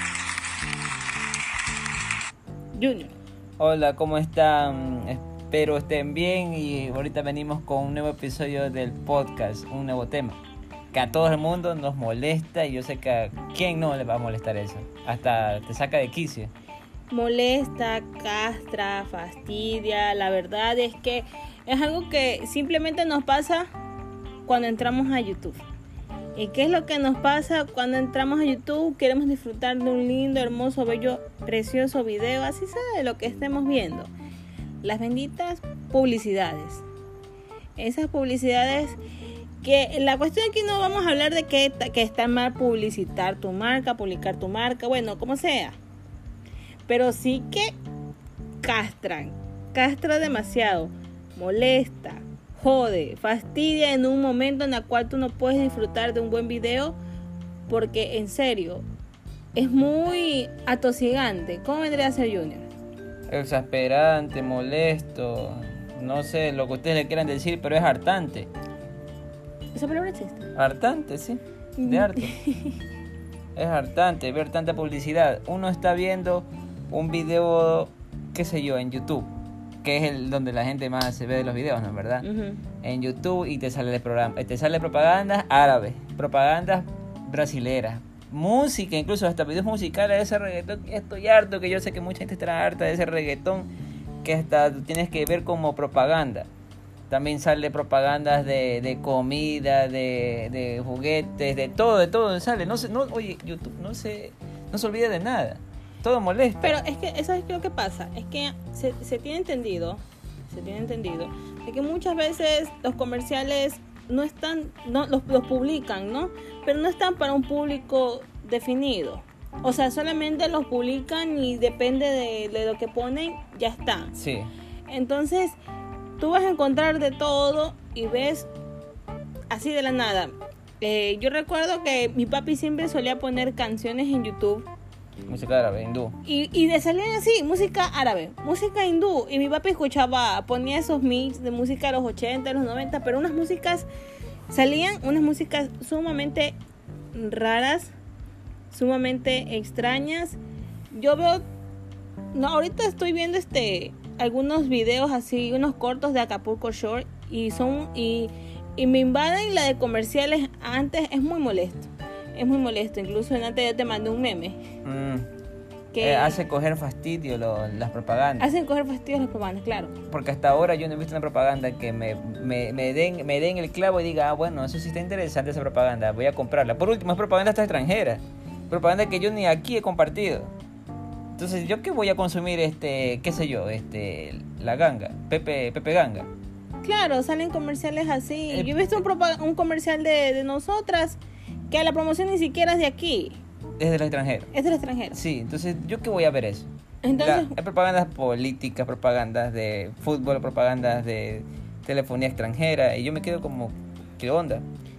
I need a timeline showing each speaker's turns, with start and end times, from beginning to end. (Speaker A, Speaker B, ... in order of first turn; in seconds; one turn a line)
Speaker A: 2.8-3.1
Speaker B: 3.6-10.4
Speaker B: 10.9-16.5
Speaker A: 17.1-23.7
Speaker A: 24.4-25.6
Speaker A: 26.4-34.1
Speaker A: 34.8-36.8
Speaker A: 37.8-39.0
Speaker A: 39.6-45.8
Speaker A: 46.9-47.8
Speaker A: 48.6-57.0
Speaker A: 57.7-58.8
Speaker A: 59.5-62.7
Speaker B: 63.3-68.5
Speaker A: 69.8-70.5
Speaker B: 70.5-72.3
Speaker A: 71.8-72.8
Speaker B: 73.5-79.3
Speaker B: 79.8-82.3
Speaker A: 82.2-82.6
Speaker B: 82.8-93.7
Speaker B: 94.2-96.5
Speaker B: 97.1-106.8
Speaker A: 106.6-124.1
Speaker B: 124.2-124.5
Speaker A: 124.9-125.6
Speaker A: 126.2-128.5
Speaker A: 129.5-134.7
Speaker B: 135.2-136.2
Speaker A: 136.2-143.9
Speaker A: 144.5-146.6
Speaker A: 147.1-147.9
Speaker A: 148.7-150.4
Speaker A: 150.9-151.4
Speaker A: 152.3-164.6
Speaker B: 164.8-165.3
Speaker A: 165.9-166.4
Speaker B: 166.0-168.5
Speaker A: 168.4-169.9
Speaker B: 170.1-180.5
Speaker B: 181.3-186.3
Speaker A: 186.8-193.4
Speaker B: 193.8-194.5
Speaker A: 194.5-195.2
Speaker B: 195.1-204.7
Speaker A: 197.0-197.6